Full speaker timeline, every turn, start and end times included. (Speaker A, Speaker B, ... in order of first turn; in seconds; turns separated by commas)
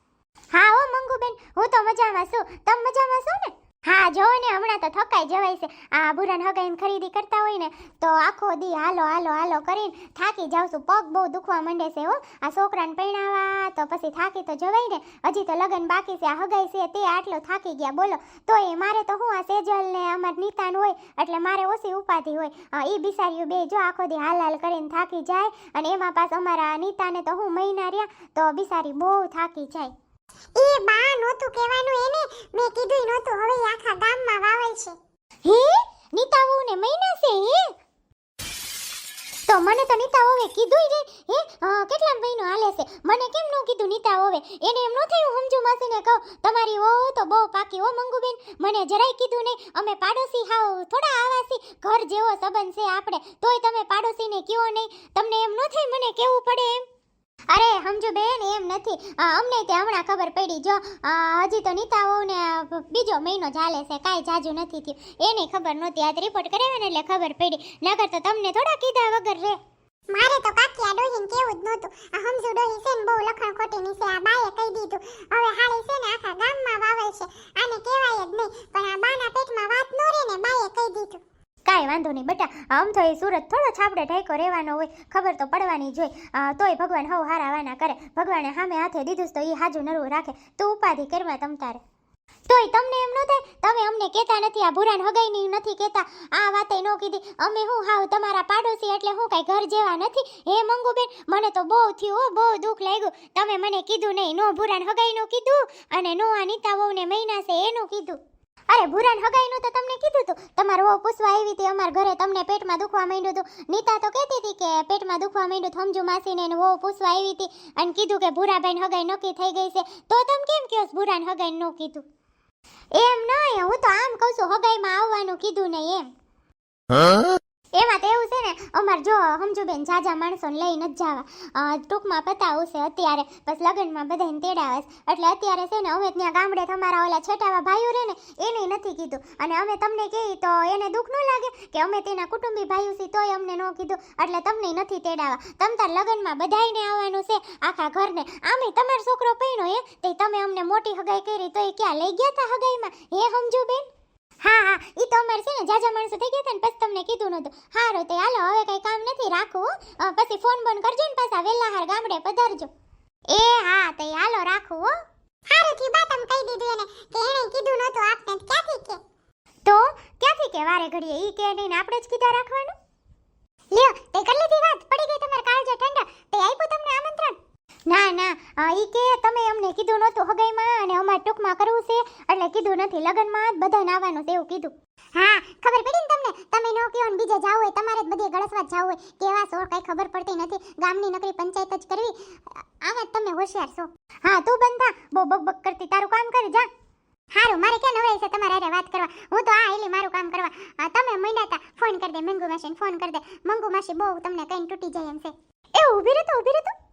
Speaker A: 0.5-29.9, Speaker B: 30.6-35.0, Speaker A: 35.5-37.7, Speaker A: 39.5-56.8, Speaker A: 57.5-69.6, Speaker B: 70.1-81.2, Speaker A: 81.7-91.8, Speaker A: 92.5-108.2, Speaker A: 108.7-122.0, Speaker A: 123.0-126.1, Speaker A: 127.8-153.9, Speaker A: 154.4-162.7, Speaker A: 163.3-164.9, Speaker B: 165.5-169.0, Speaker A: 169.7-172.8, Speaker B: 173.7-177.3, Speaker A: 177.9-184.7, Speaker B: 185.2-192.1, Speaker B: 192.9-193.7, Speaker A: 194.2-196.7, Speaker B: 197.4-202.0, Speaker A: 202.7-203.4, Speaker B: 203.2-205.3, Speaker A: 205.8-206.7